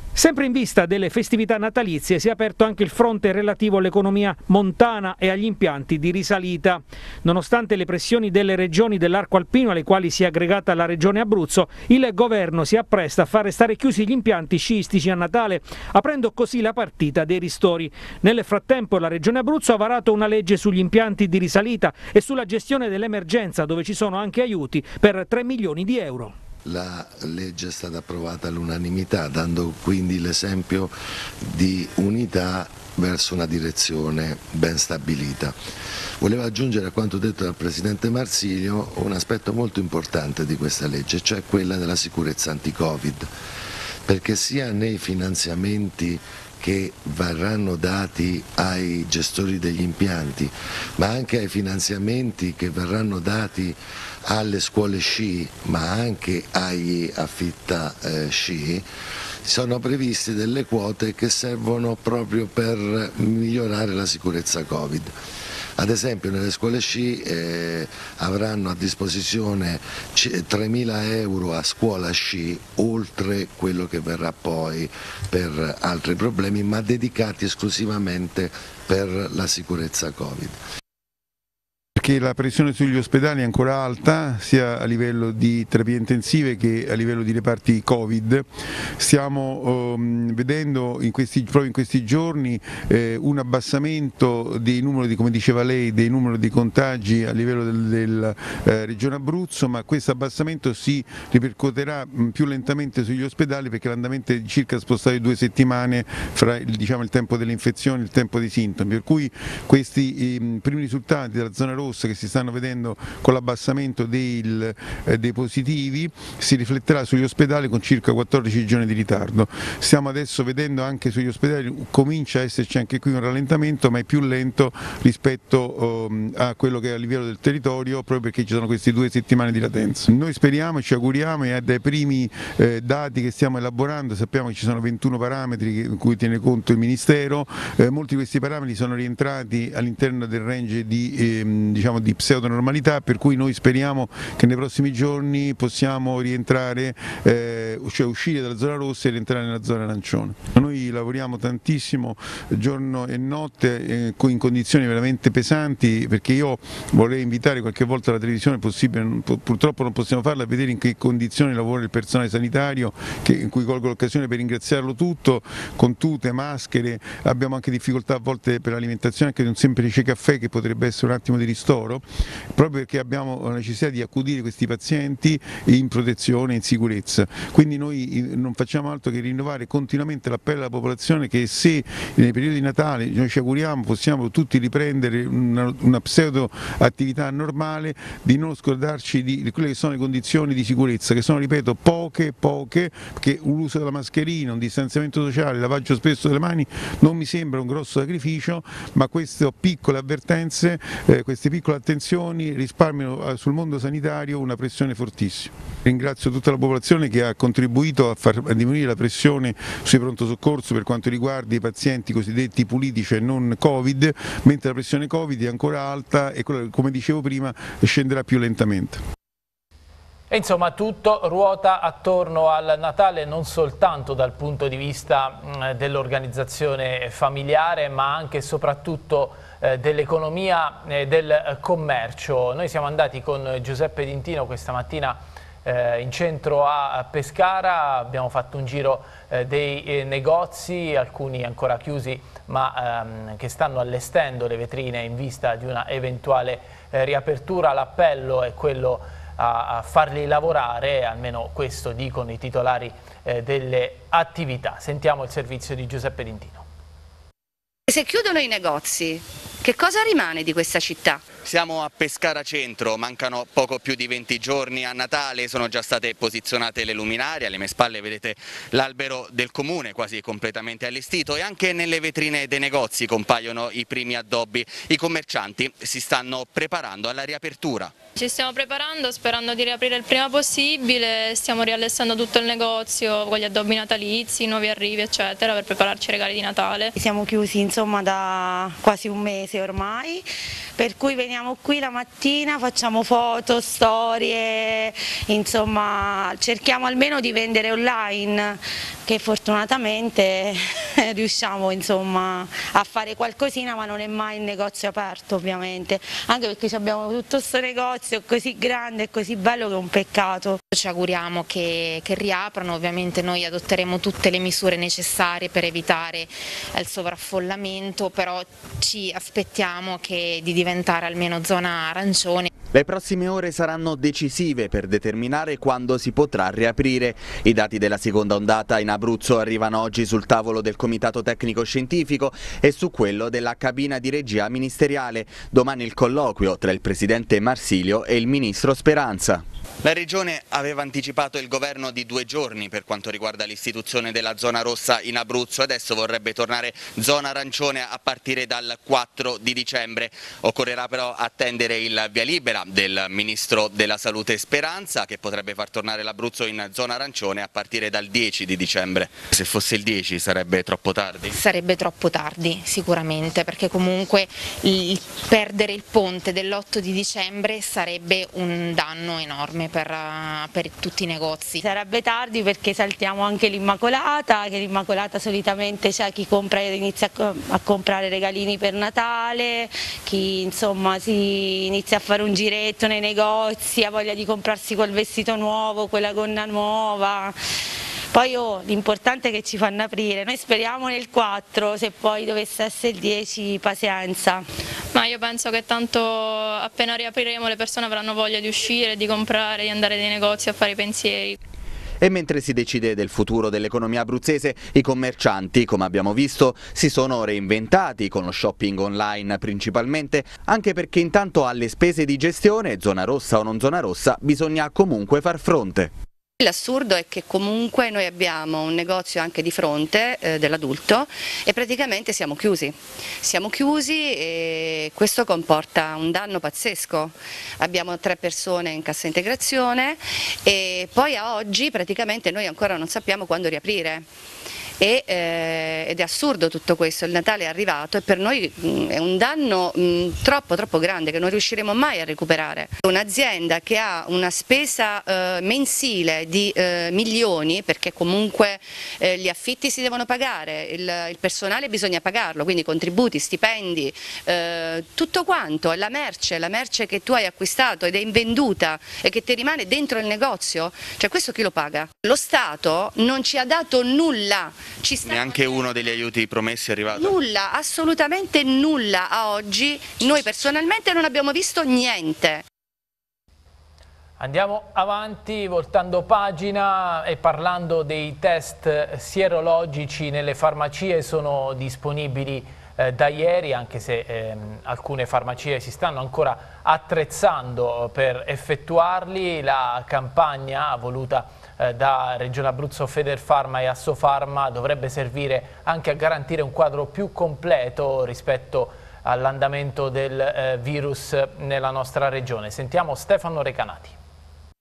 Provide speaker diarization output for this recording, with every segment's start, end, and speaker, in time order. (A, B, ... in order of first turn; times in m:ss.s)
0:00.2-0:26.3 A
0:26.6-0:35.6 B
0:36.2-0:43.3 B
0:44.1-0:58.9 B
0:59.4-1:05.1 B
1:05.8-1:20.6 B
1:22.0-3:39.0 C
3:40.3-4:16.6 D
4:17.9-4:21.3 E
4:21.4-4:37.9 F
4:38.2-4:46.9 G
4:47.0-4:50.2 H
4:50.8-5:10.6 H
5:10.7-5:22.5 I
5:22.7-6:01.4 F
6:01.3-6:11.6 I
6:11.6-6:27.4 H
6:28.1-6:34.4 H
6:34.9-6:41.4 G
6:42.0-6:55.9 F
6:56.4-7:14.1 E
7:14.8-7:45.9 E
7:45.0-7:47.1 F
7:46.9-7:52.4 E
7:54.2-8:24.0 D